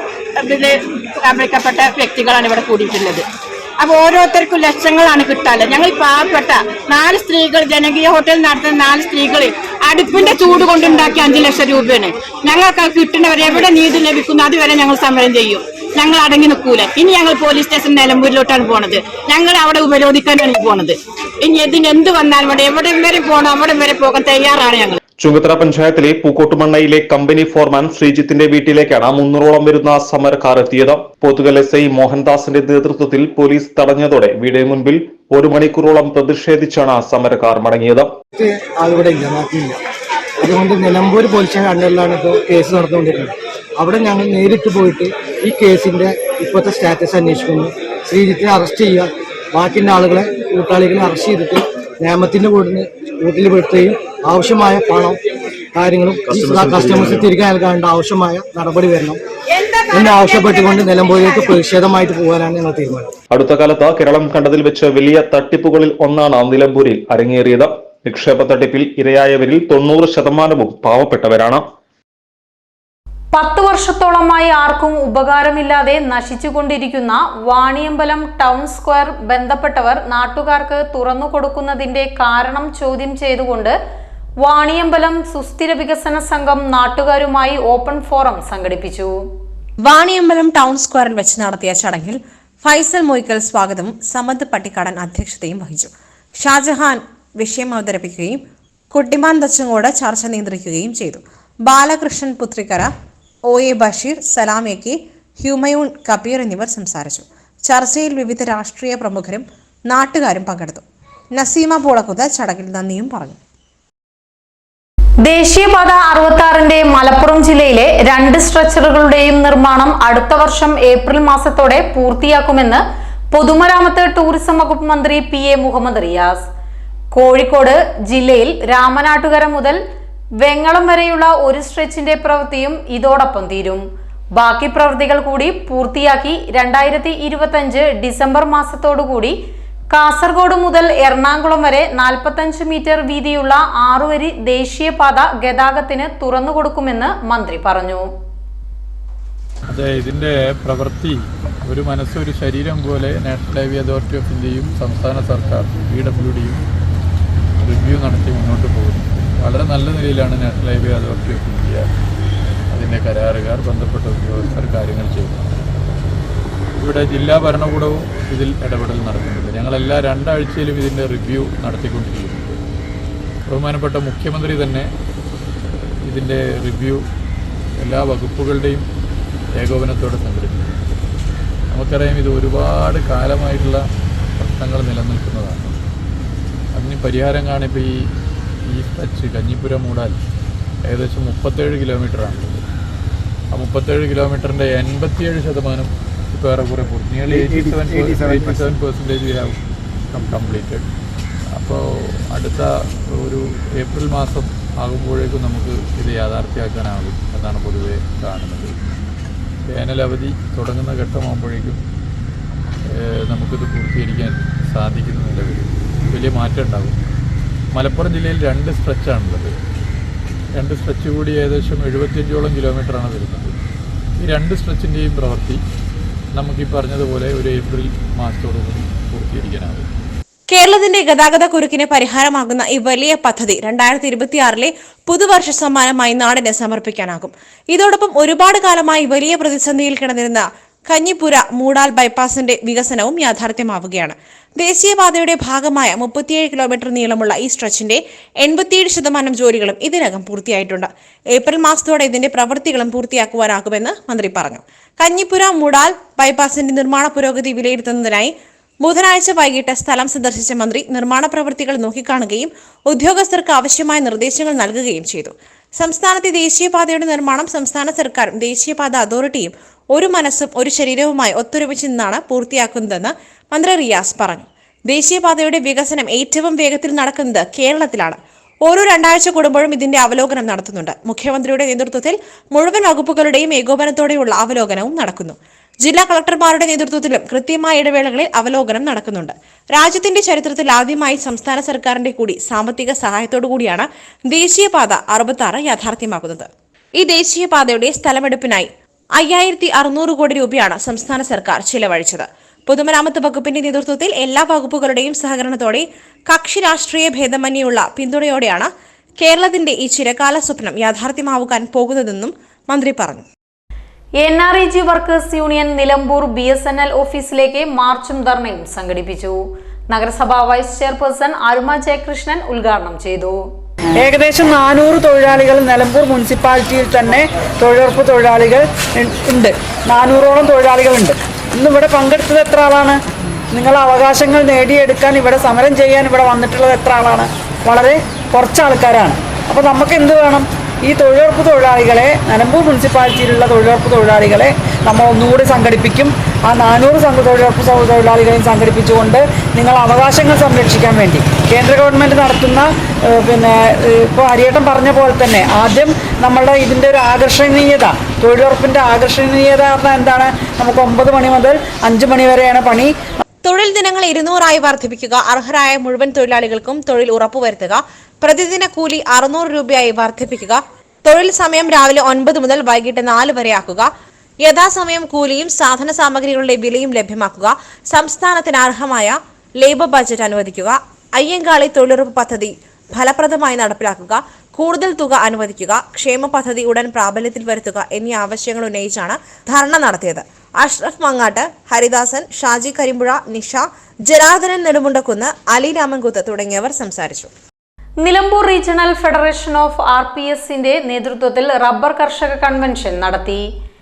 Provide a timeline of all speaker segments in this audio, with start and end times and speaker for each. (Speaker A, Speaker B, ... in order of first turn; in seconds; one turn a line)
Speaker A: 0.4-3.2
Speaker A: 3.8-25.0
Speaker B: 25.2-38.1
Speaker C: 38.3-39.8
Speaker C: 40.4-55.2
Speaker C: 55.8-59.2
Speaker A: 59.6-60.9
Speaker C: 59.9-63.1
Speaker B: 63.3-71.6
Speaker D: 73.3-83.7
Speaker D: 84.4-89.2
Speaker E: 89.8-98.4
Speaker E: 98.9-102.9
Speaker E: 103.5-110.8
Speaker E: 111.3-113.4
Speaker D: 115.2-126.4
Speaker D: 127.1-129.8
Speaker D: 130.4-133.8
Speaker D: 134.3-139.3
Speaker D: 139.9-148.1
Speaker F: 149.7-156.6
Speaker F: 157.6-161.9
Speaker F: 162.7-165.5
Speaker F: 166.8-172.6
Speaker F: 173.5-174.9
Speaker F: 176.1-177.0
Speaker F: 177.8-178.9
Speaker F: 179.6-180.8
Speaker F: 181.7-183.8
Speaker F: 184.4-185.8
Speaker F: 186.8-187.9
Speaker F: 188.7-190.2
Speaker F: 190.8-192.6
Speaker F: 193.5-199.6
Speaker F: 200.1-200.9
Speaker F: 201.6-208.7
Speaker F: 209.7-211.8
Speaker F: 213.0-217.0
Speaker F: 217.7-219.6
Speaker F: 220.6-223.6
Speaker F: 224.2-225.6
Speaker F: 226.3-229.9
Speaker E: 230.5-313.2
Speaker D: 314.2-319.4
Speaker D: 319.9-323.4
Speaker G: 324.0-333.0
Speaker G: 333.5-362.9
Speaker E: 363.4-373.9
Speaker E: 374.4-397.3
Speaker D: 398.0-403.4